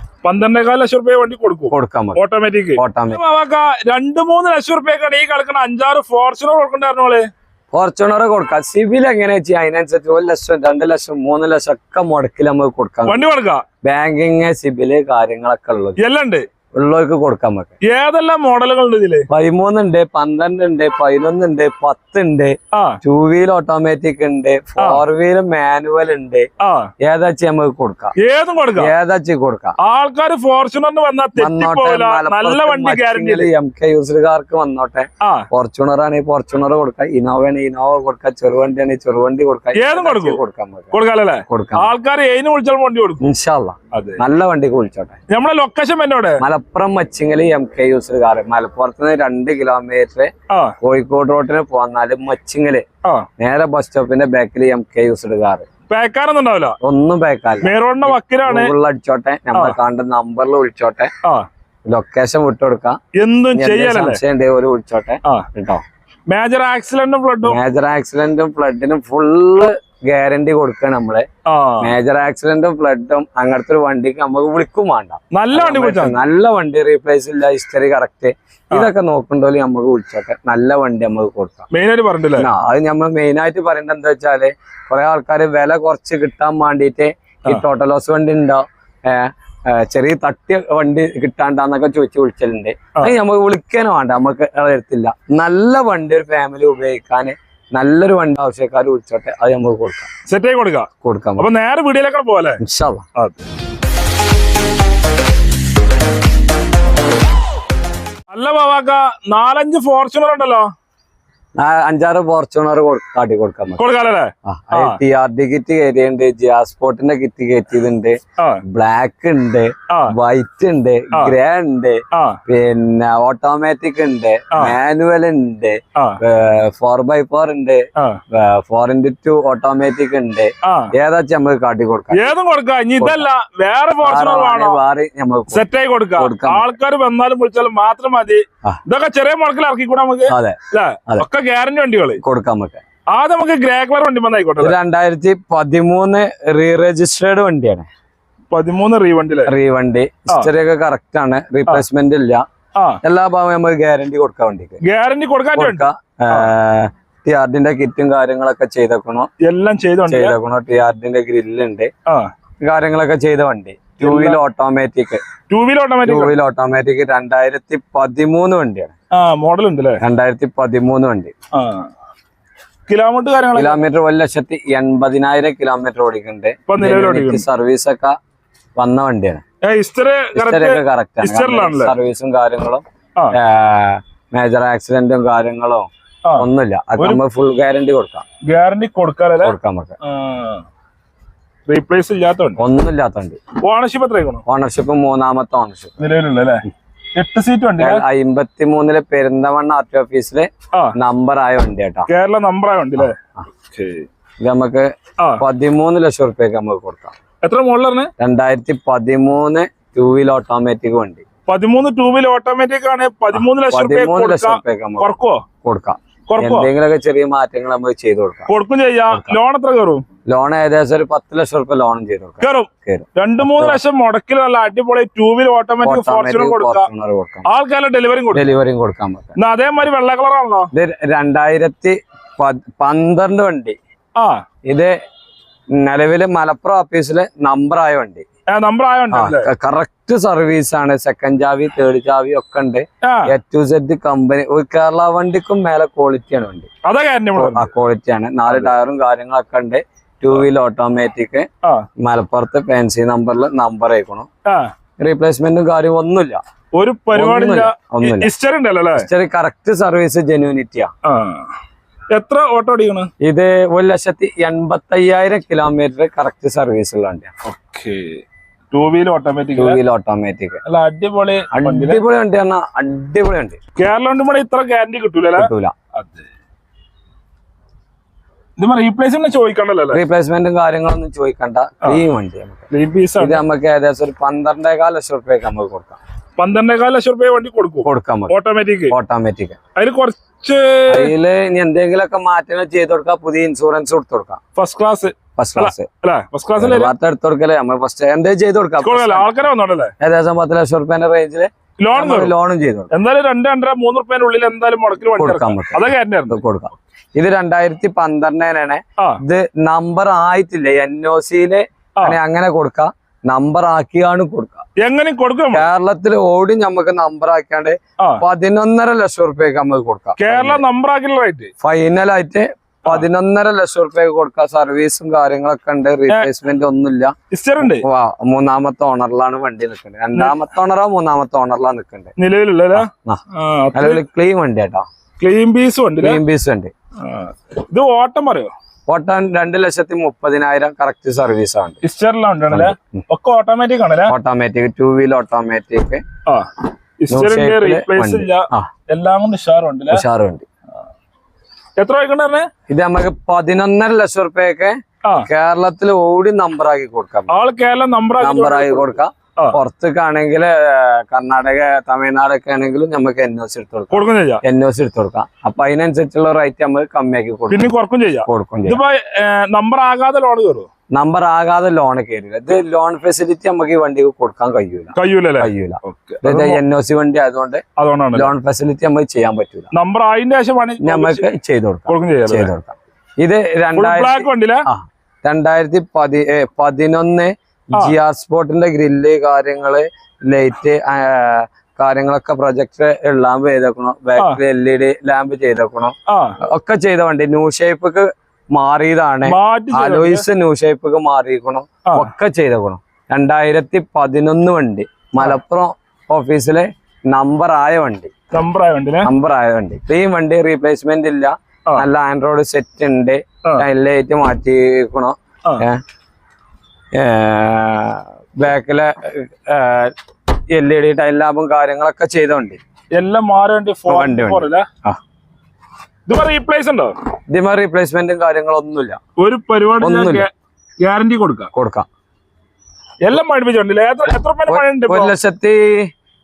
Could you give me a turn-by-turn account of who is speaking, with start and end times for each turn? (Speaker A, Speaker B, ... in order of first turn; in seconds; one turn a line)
Speaker A: 0.2-7.3
Speaker B: 1.7-2.2
Speaker B: 2.8-3.2
Speaker B: 7.7-13.2
Speaker A: 13.1-13.6
Speaker B: 13.8-16.0
Speaker A: 16.0-16.4
Speaker B: 16.7-17.7
Speaker A: 17.8-19.3
Speaker B: 19.3-26.5
Speaker A: 22.7-23.0
Speaker A: 26.6-26.9
Speaker B: 27.0-28.1
Speaker A: 28.2-28.9
Speaker B: 28.8-29.8
Speaker A: 29.8-33.5
Speaker B: 31.4-41.0
Speaker A: 35.2-35.5
Speaker A: 39.7-40.4
Speaker A: 40.9-43.2
Speaker B: 41.5-41.9
Speaker B: 43.2-45.2
Speaker A: 43.9-44.2
Speaker A: 45.3-46.4
Speaker B: 46.4-50.3
Speaker B: 50.8-52.8
Speaker B: 53.4-55.6
Speaker A: 55.9-56.8
Speaker B: 56.8-61.1
Speaker A: 57.6-58.7
Speaker B: 61.9-63.0
Speaker A: 63.1-64.2
Speaker B: 63.5-65.8
Speaker A: 66.3-67.6
Speaker B: 67.4-71.3
Speaker A: 71.5-71.9
Speaker B: 71.8-81.7
Speaker A: 75.3-76.2
Speaker A: 81.7-82.5
Speaker B: 82.4-100.1
Speaker A: 100.3-102.6
Speaker B: 101.0-101.5
Speaker B: 102.6-103.0
Speaker A: 103.1-103.4
Speaker A: 108.3-110.7
Speaker B: 111.6-113.8
Speaker A: 113.8-115.0
Speaker B: 114.5-132.3
Speaker A: 119.9-120.1
Speaker A: 122.1-122.4
Speaker A: 130.6-130.9
Speaker A: 132.1-134.8
Speaker B: 133.0-133.2
Speaker B: 134.0-136.7
Speaker A: 135.5-142.2
Speaker B: 140.3-141.2
Speaker B: 142.2-142.8
Speaker A: 143.1-144.8
Speaker B: 144.6-147.9
Speaker A: 148.5-149.5
Speaker B: 149.4-152.4
Speaker B: 153.0-154.8
Speaker A: 154.8-156.5
Speaker B: 155.5-159.3
Speaker A: 159.4-160.3
Speaker B: 160.1-161.9
Speaker B: 162.6-165.2
Speaker A: 164.0-164.4
Speaker A: 165.5-166.3
Speaker B: 166.0-168.9
Speaker A: 169.1-170.0
Speaker B: 170.0-171.3
Speaker A: 171.5-171.9
Speaker A: 172.9-173.8
Speaker B: 173.5-178.2
Speaker A: 176.7-177.4
Speaker B: 178.8-179.4
Speaker A: 179.6-181.9
Speaker B: 180.3-188.2
Speaker A: 188.5-190.6
Speaker B: 189.4-189.9
Speaker A: 191.7-192.6
Speaker B: 192.6-193.4
Speaker A: 193.6-194.4
Speaker B: 194.4-195.9
Speaker A: 196.0-196.6
Speaker A: 197.1-198.0
Speaker B: 197.8-202.1
Speaker A: 202.1-203.2
Speaker B: 203.0-203.4
Speaker A: 203.7-204.1
Speaker B: 204.4-207.1
Speaker A: 207.4-208.1
Speaker B: 208.2-211.2
Speaker A: 211.5-215.4
Speaker B: 213.3-215.1
Speaker B: 215.6-218.5
Speaker A: 216.3-216.7
Speaker A: 218.5-220.0
Speaker B: 219.1-219.4
Speaker B: 220.3-223.8
Speaker A: 222.4-226.9
Speaker B: 225.8-227.5
Speaker A: 227.4-228.5
Speaker B: 228.3-229.4
Speaker A: 229.4-230.7
Speaker B: 230.7-233.8
Speaker A: 234.2-234.4
Speaker B: 234.7-234.9
Speaker B: 235.8-238.2
Speaker A: 238.5-239.5
Speaker B: 239.1-246.7
Speaker A: 243.0-243.3
Speaker A: 246.8-247.7
Speaker B: 247.3-251.5
Speaker A: 248.5-248.7
Speaker B: 252.0-254.3
Speaker B: 255.0-256.4
Speaker A: 256.7-259.1
Speaker B: 257.1-258.3
Speaker B: 259.0-260.9
Speaker A: 261.0-261.5
Speaker A: 262.1-263.1
Speaker B: 263.2-267.3
Speaker A: 267.4-269.8
Speaker B: 269.6-270.6
Speaker A: 270.6-272.0
Speaker B: 271.5-273.6
Speaker A: 273.8-276.2
Speaker B: 275.4-275.7
Speaker A: 278.6-280.0
Speaker B: 279.9-282.7
Speaker A: 282.7-283.4
Speaker B: 283.2-286.0
Speaker A: 286.4-288.9
Speaker B: 287.8-288.3
Speaker B: 288.9-289.6
Speaker A: 289.8-291.1
Speaker B: 290.9-294.4
Speaker A: 294.6-296.9
Speaker B: 295.4-295.9
Speaker B: 296.6-299.3
Speaker A: 298.8-299.9
Speaker B: 300.0-302.9
Speaker A: 301.8-302.3
Speaker A: 302.9-306.4
Speaker B: 305.2-314.6
Speaker A: 314.8-315.6
Speaker B: 315.5-320.6
Speaker A: 320.2-321.5
Speaker B: 321.6-332.1
Speaker A: 327.3-327.8
Speaker A: 332.2-334.0
Speaker B: 332.7-333.2
Speaker B: 333.7-334.9
Speaker A: 335.2-336.2
Speaker B: 336.0-336.7
Speaker A: 337.0-338.5
Speaker B: 338.9-341.8
Speaker A: 341.8-344.1
Speaker B: 342.5-343.0
Speaker B: 344.1-346.0
Speaker A: 346.2-350.0
Speaker B: 347.1-348.7
Speaker B: 349.9-350.4
Speaker A: 351.8-352.5
Speaker B: 352.7-357.4
Speaker A: 357.3-359.6
Speaker B: 358.2-367.7
Speaker A: 363.9-364.4
Speaker A: 367.5-370.7
Speaker B: 368.2-368.8
Speaker B: 370.9-377.6
Speaker A: 374.9-376.6
Speaker A: 377.8-378.3
Speaker B: 378.1-379.7
Speaker A: 379.7-381.2
Speaker B: 380.8-408.1
Speaker A: 381.9-382.5
Speaker A: 383.7-384.6
Speaker A: 396.1-396.4
Speaker A: 399.2-400.2
Speaker A: 401.9-402.1
Speaker A: 408.3-409.1
Speaker B: 409.0-415.8
Speaker B: 416.9-419.9
Speaker B: 420.5-422.6
Speaker A: 422.9-424.7
Speaker B: 423.9-425.0
Speaker A: 426.1-427.0
Speaker B: 427.3-429.0
Speaker A: 429.2-431.5
Speaker B: 429.8-430.2
Speaker B: 431.5-431.9
Speaker A: 433.0-435.1
Speaker B: 434.5-435.9